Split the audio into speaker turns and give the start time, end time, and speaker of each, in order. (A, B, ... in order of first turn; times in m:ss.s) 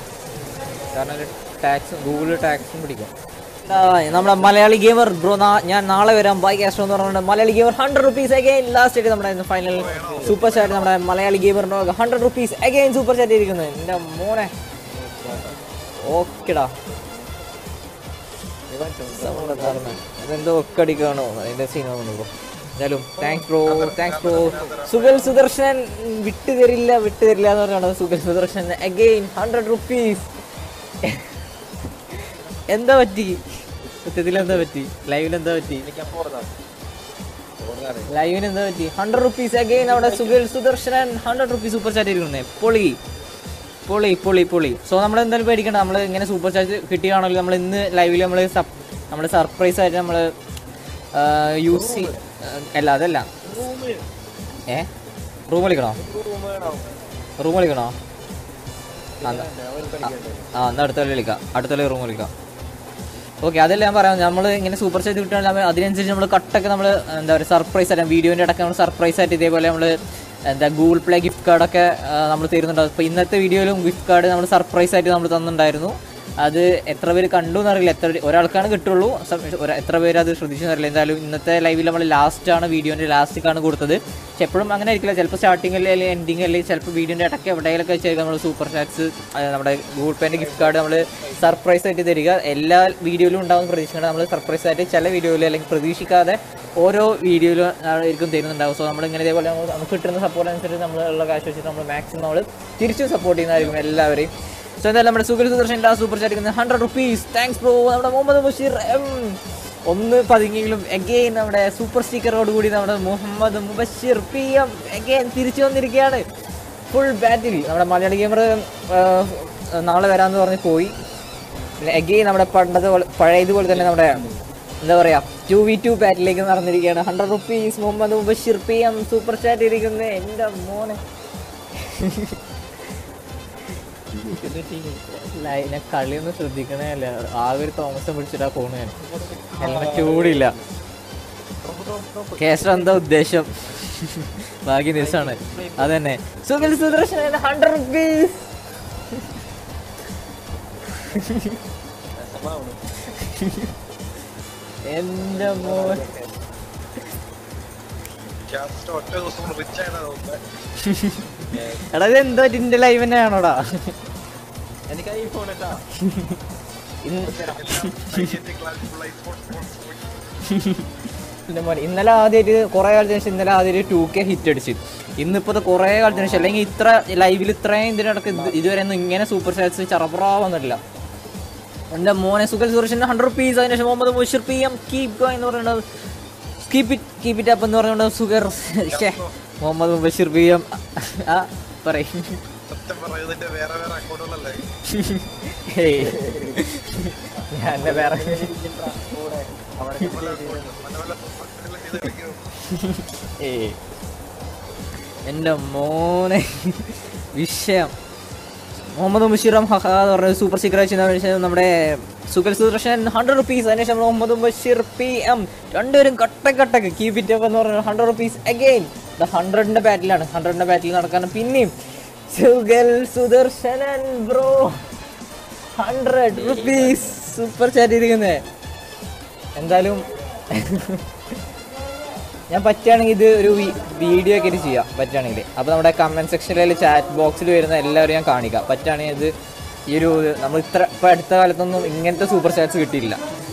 0:00.9-0:03.1 A
0:03.6-0:14.5 A
0:09.6-0:10.9 B
0:09.7-0:10.4 C
0:14.8-0:15.6 C
0:16.0-0:16.7 A
0:16.6-0:17.3 C
0:18.7-0:19.9 C
0:19.1-0:30.3 A
0:23.2-0:25.4 B
0:31.0-0:31.3 A
0:32.7-0:33.4 A
0:34.0-0:35.8 A
0:34.3-0:34.6 C
0:35.7-0:36.5 C
0:37.6-0:38.1 C
0:38.1-0:43.0 A
0:39.8-0:40.4 C
0:43.9-0:50.3 A
0:51.1-0:53.3 A
0:51.7-0:52.2 C
0:53.4-0:54.0 C
0:55.5-0:56.0 A
0:56.0-0:57.0 C
0:57.4-0:57.9 A
0:59.2-1:00.5 C
0:59.2-0:59.5 A
1:00.0-1:02.3 A
1:03.4-1:56.2 A
1:30.3-1:31.4 C
1:56.9-2:00.9 A
2:01.8-2:04.2 A
2:03.6-2:04.4 C
2:04.8-2:11.0 A
2:11.8-2:12.4 A
2:14.1-2:15.4 C
2:15.3-2:18.9 A
2:19.0-2:20.5 C
2:19.6-2:20.5 A
2:21.6-2:23.0 C
2:22.4-2:28.5 A
2:24.9-2:26.0 C
2:26.6-2:27.3 C
2:30.9-2:31.6 A
2:32.2-2:32.8 C
2:33.1-2:33.7 A
2:34.9-2:36.0 A
2:35.3-2:36.4 C
2:38.5-2:40.4 B
2:40.8-2:41.2 A
2:41.5-2:41.9 C
2:41.9-2:43.9 A
2:44.9-2:45.8 C
2:46.0-2:46.4 A
2:47.0-2:48.4 A
2:47.2-2:47.7 C
2:47.4-2:50.1 B
2:50.5-2:50.8 A
2:51.5-3:00.8 A
2:56.1-2:56.6 C
2:58.3-2:58.7 C
3:01.9-3:05.8 A
3:06.6-3:12.4 A
3:08.9-3:09.3 B
3:12.7-3:14.6 B
3:14.9-3:18.5 A
3:15.9-3:16.6 C
3:17.7-3:20.8 C
3:20.0-3:22.4 B
3:22.7-3:23.8 A
3:25.3-3:27.9 A
3:28.9-3:41.7 A
3:42.3-3:44.8 A
3:45.8-3:48.4 A
3:46.3-3:47.2 C
3:49.6-3:51.0 A
3:52.5-3:59.3 A
3:59.9-4:03.2 A